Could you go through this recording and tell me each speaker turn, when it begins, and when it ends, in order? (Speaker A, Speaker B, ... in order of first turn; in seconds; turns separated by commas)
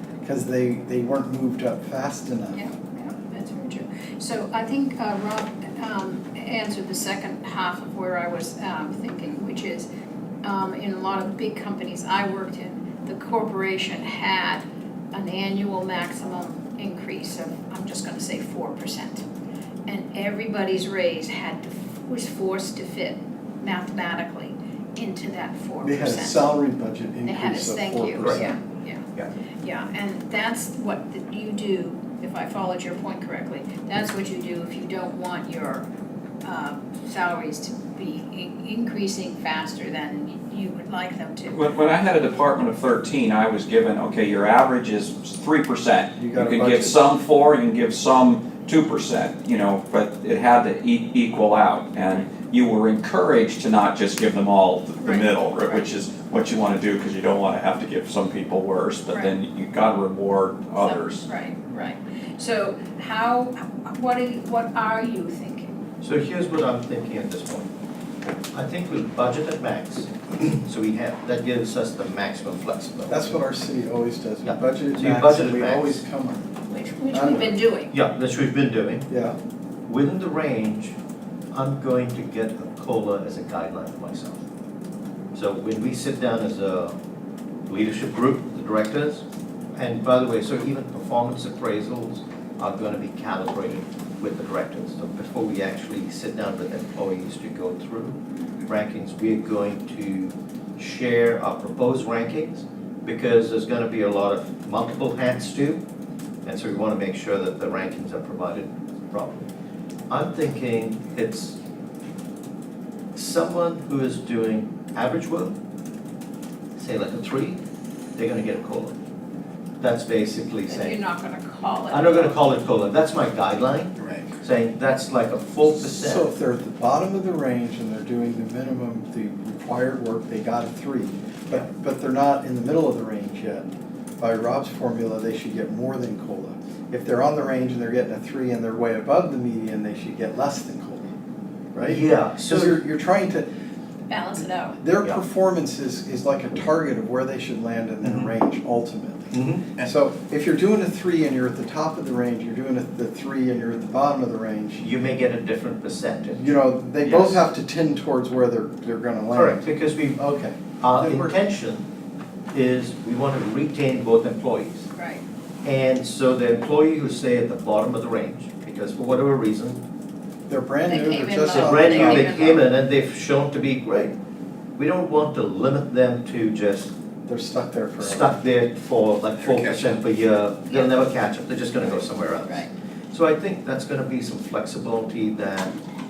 Speaker A: 0.2-2.6, Speaker B: 2.5-9.9, Speaker B: 10.4-19.2, Speaker B: 19.9-26.5, Speaker A: 25.8-28.5, Speaker B: 27.2-29.1, Speaker C: 28.2-28.5, Speaker B: 29.6-35.9, Speaker B: 36.4-41.6, Speaker D: 41.5-61.3, Speaker A: 46.2-47.0, Speaker B: 55.0-55.9, Speaker B: 60.8-65.7, Speaker C: 66.0-67.7, Speaker C: 68.5-73.3, Speaker A: 73.1-76.5, Speaker C: 74.5-76.0, Speaker B: 76.7-77.9, Speaker A: 77.1-77.5, Speaker C: 77.9-79.1, Speaker A: 79.1-79.4, Speaker C: 79.9-81.0, Speaker C: 81.5-84.4, Speaker C: 85.3-87.0, Speaker C: 87.7-89.2, Speaker C: 89.8-105.8, Speaker C: 106.4-109.5, Speaker C: 110.1-111.6, Speaker C: 113.2-115.6, Speaker C: 116.8-117.6, Speaker C: 118.2-119.0, Speaker C: 119.8-121.0, Speaker B: 120.7-122.4, Speaker C: 121.9-126.3, Speaker A: 125.7-141.1, Speaker A: 141.8-143.5, Speaker C: 141.8-142.8, Speaker B: 144.1-144.8, Speaker A: 144.8-154.9, Speaker C: 148.0-148.3, Speaker C: 149.3-149.9, Speaker C: 154.8-156.5, Speaker A: 156.3-161.4, Speaker C: 159.3-160.2, Speaker C: 160.8-161.8, Speaker C: 162.5-164.9, Speaker B: 165.0-165.2, Speaker C: 165.6-169.8, Speaker A: 170.5-172.5, Speaker B: 170.9-172.7, Speaker C: 171.5-174.2, Speaker C: 174.8-176.9, Speaker A: 177.3-178.3, Speaker C: 178.0-185.8, Speaker B: 180.7-182.7